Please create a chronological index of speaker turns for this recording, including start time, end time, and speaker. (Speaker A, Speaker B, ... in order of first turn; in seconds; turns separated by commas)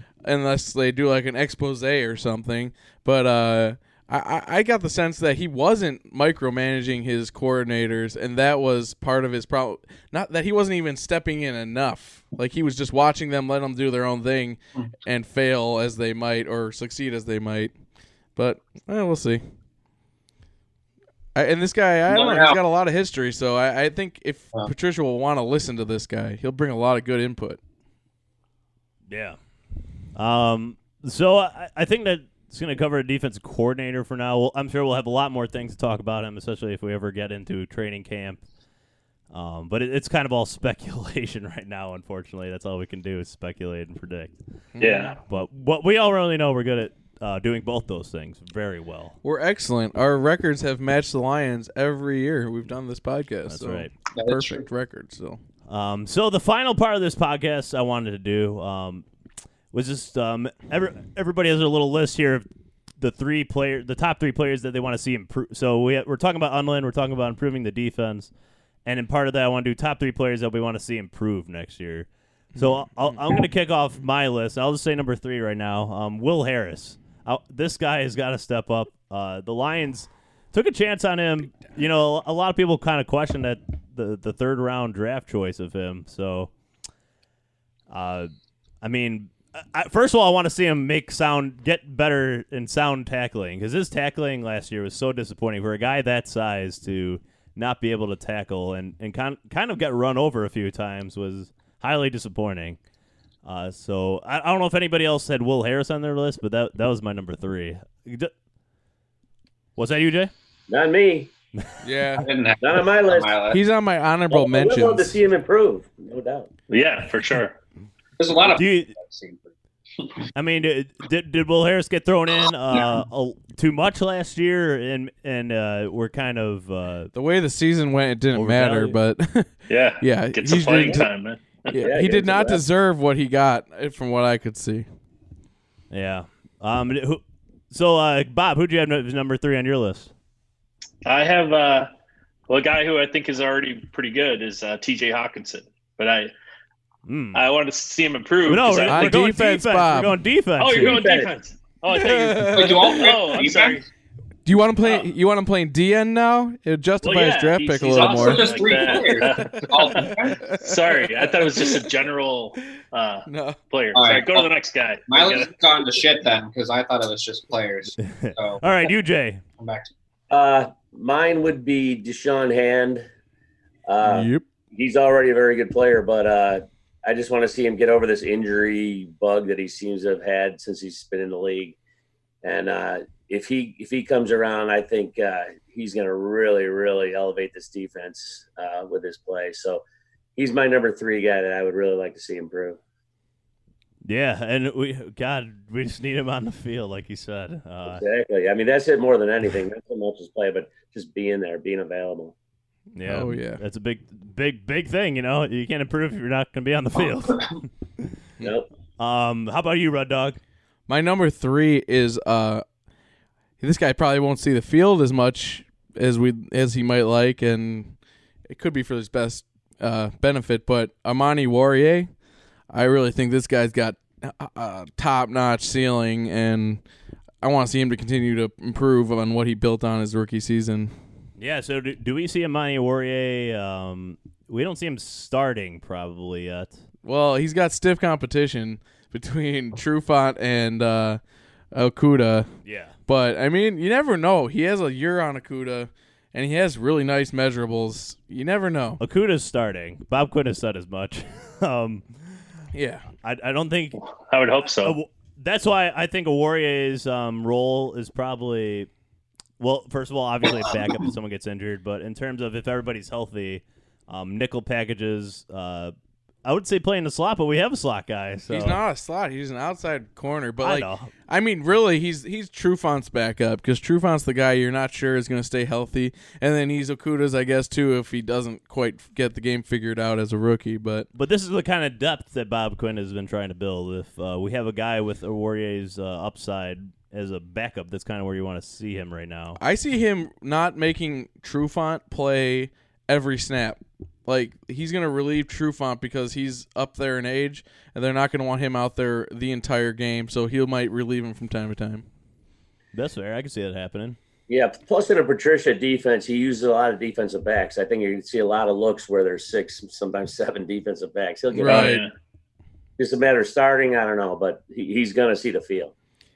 Speaker A: 0.2-17.7, Speaker A: 18.4-19.4, Speaker A: 21.4-27.6, Speaker B: 22.1-22.6, Speaker C: 29.1-29.4, Speaker C: 30.1-38.4, Speaker C: 39.3-44.4, Speaker A: 44.8-45.1, Speaker D: 44.8-45.2, Speaker C: 45.3-49.2, Speaker A: 49.2-55.4, Speaker C: 53.5-53.9, Speaker B: 54.1-54.6, Speaker C: 55.7-59.0, Speaker C: 59.7-62.5, Speaker C: 63.0-68.3, Speaker C: 68.9-86.5, Speaker A: 72.5-73.2, Speaker C: 87.9-88.3, Speaker C: 88.8-102.8, Speaker C: 103.5-108.3, Speaker C: 109.8-110.3, Speaker E: 110.7-111.3, Speaker A: 111.8-112.3, Speaker B: 112.2-113.6, Speaker E: 112.6-113.3, Speaker A: 113.5-115.2, Speaker E: 114.3-116.5, Speaker D: 116.7-117.6, Speaker B: 118.2-119.5, Speaker C: 118.5-118.9, Speaker C: 120.3-127.1, Speaker A: 127.1-131.1, Speaker C: 128.3-129.0, Speaker D: 129.7-131.8, Speaker A: 131.7-134.9, Speaker E: 131.8-132.6, Speaker C: 135.9-140.1, Speaker D: 141.1-141.9, Speaker D: 142.5-146.3, Speaker C: 147.1-147.4, Speaker D: 147.3-149.2, Speaker C: 148.5-151.2, Speaker A: 148.9-150.2, Speaker D: 150.6-153.9, Speaker E: 150.8-151.3, Speaker A: 151.9-152.9, Speaker B: 152.5-153.8, Speaker A: 154.4-158.5, Speaker D: 154.8-155.1, Speaker D: 157.0-165.6, Speaker B: 158.0-160.4, Speaker A: 160.1-161.9, Speaker A: 162.6-163.6, Speaker B: 163.9-164.5, Speaker B: 165.1-168.7, Speaker C: 168.0-169.4, Speaker B: 169.6-169.9, Speaker E: 170.3-173.1, Speaker E: 173.9-181.8, Speaker A: 174.0-174.4, Speaker E: 182.4-189.8, Speaker E: 190.4-192.8, Speaker C: 194.0-198.0, Speaker E: 197.9-202.3, Speaker C: 203.0-208.1, Speaker A: 203.0-203.6, Speaker C: 209.0-210.4, Speaker A: 210.9-212.6, Speaker A: 213.6-218.0, Speaker A: 218.5-222.1, Speaker A: 222.7-226.8, Speaker A: 227.4-231.0, Speaker C: 231.4-236.8, Speaker A: 237.0-241.2, Speaker A: 241.7-242.5, Speaker C: 242.7-243.0, Speaker A: 243.1-249.0, Speaker C: 249.0-252.1, Speaker A: 252.7-253.1, Speaker C: 253.2-254.0, Speaker D: 254.0-255.0, Speaker C: 254.8-258.9, Speaker C: 259.6-265.9, Speaker C: 266.4-268.8, Speaker A: 268.5-281.1, Speaker C: 270.6-271.1, Speaker C: 281.1-289.6, Speaker A: 289.6-302.1, Speaker C: 302.9-304.2, Speaker E: 304.5-312.0, Speaker A: 311.6-312.1, Speaker D: 311.6-312.1, Speaker E: 313.0-315.9